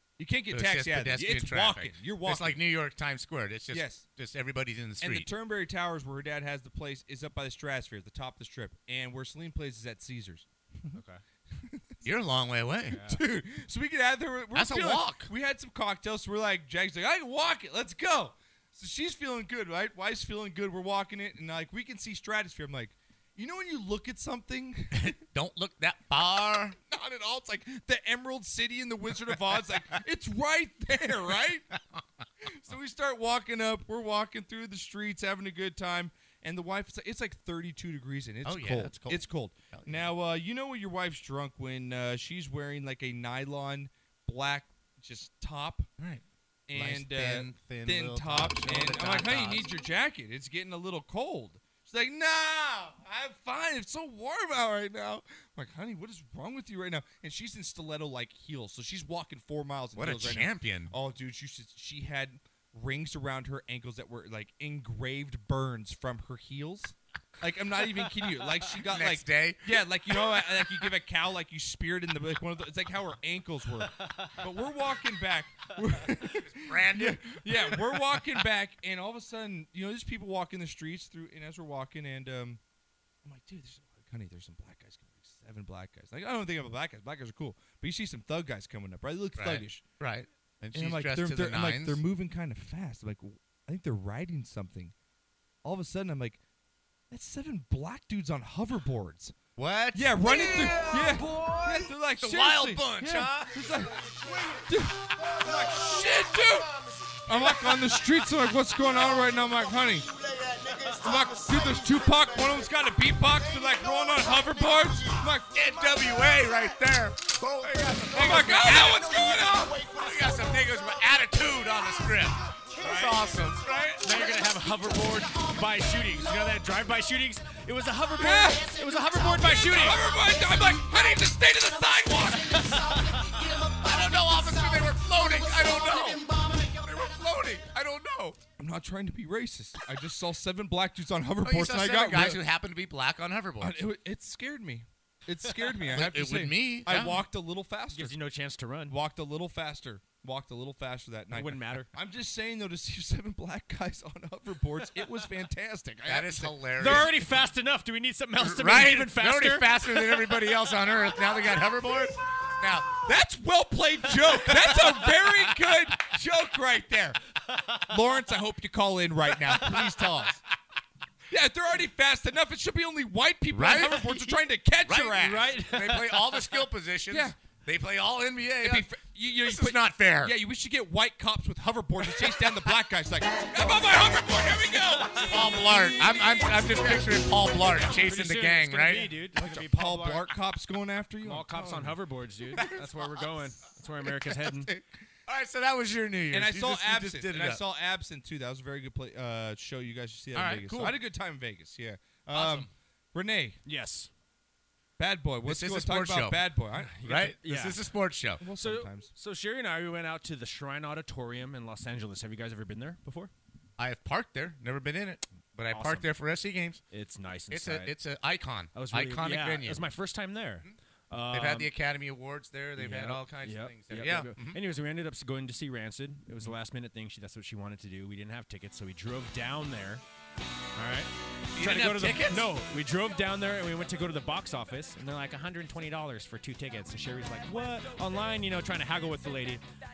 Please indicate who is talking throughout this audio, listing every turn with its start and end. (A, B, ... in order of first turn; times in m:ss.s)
0:00.2-0:02.6 A
0:00.5-0:05.3 B
0:03.7-0:04.0 A
0:05.0-0:11.0 A
0:11.0-0:11.2 C
0:12.0-0:13.0 B
0:12.9-0:13.2 C
0:13.0-0:25.1 A
0:14.5-0:15.3 B
0:24.9-0:26.8 B
0:26.8-0:31.7 A
0:32.4-0:45.9 A
0:38.4-0:40.1 B
0:46.0-0:49.7 B
0:46.7-1:22.6 A
1:00.0-1:00.9 B
1:08.7-1:09.6 B
1:10.3-1:10.6 B
1:16.3-1:18.2 B
1:23.2-1:29.8 A
1:29.4-1:32.0 B
1:30.7-1:34.9 A
1:35.6-1:36.4 A
1:37.1-1:39.4 A
1:39.6-1:41.3 B
1:39.9-1:44.0 A
1:42.2-1:44.6 B
1:44.7-1:46.7 A
1:47.2-1:50.1 A
1:51.0-1:55.6 A
1:55.5-2:04.3 B
1:58.1-1:59.8 A
2:02.8-2:03.2 A
2:04.0-2:10.0 C
2:08.2-2:08.8 A
2:09.7-2:12.8 A
2:12.5-2:13.2 C
2:13.5-2:18.4 B
2:18.6-2:22.4 A
2:21.4-2:23.8 B
2:23.6-2:28.2 A
2:25.9-2:27.2 B
2:27.9-2:29.0 C
2:28.9-2:37.1 A
2:31.3-2:31.9 C
2:36.0-2:37.2 B
2:36.8-2:40.2 C
2:38.4-2:43.0 B
2:43.0-2:47.2 A
2:44.4-2:44.9 B
2:47.5-2:47.8 C
2:47.9-2:50.4 A
2:51.3-2:55.5 A
2:53.5-2:54.4 B
2:54.9-2:58.9 B
2:55.2-2:56.3 C
2:57.1-2:57.4 A
2:58.6-3:05.5 A
2:59.4-3:00.4 B
3:05.2-3:09.1 B
3:07.8-3:10.2 C
3:09.4-3:12.0 A
3:11.2-3:14.7 C
3:12.6-3:12.9 B
3:15.3-3:17.6 B
3:16.3-3:23.6 A
3:20.4-3:21.0 B
3:22.3-3:22.7 B
3:23.7-3:24.1 C
3:25.0-3:27.0 A
3:25.5-3:26.4 B
3:26.9-3:27.8 C
3:27.0-3:28.4 B
3:28.4-3:29.1 A
3:28.6-3:33.3 C
3:33.8-3:36.8 B
3:35.7-3:36.1 C
3:36.9-3:37.9 C
3:37.5-3:39.8 B
3:38.7-3:41.7 C
3:41.3-3:44.6 B
3:42.8-3:50.0 C
3:50.8-3:59.6 C
3:51.6-3:52.5 B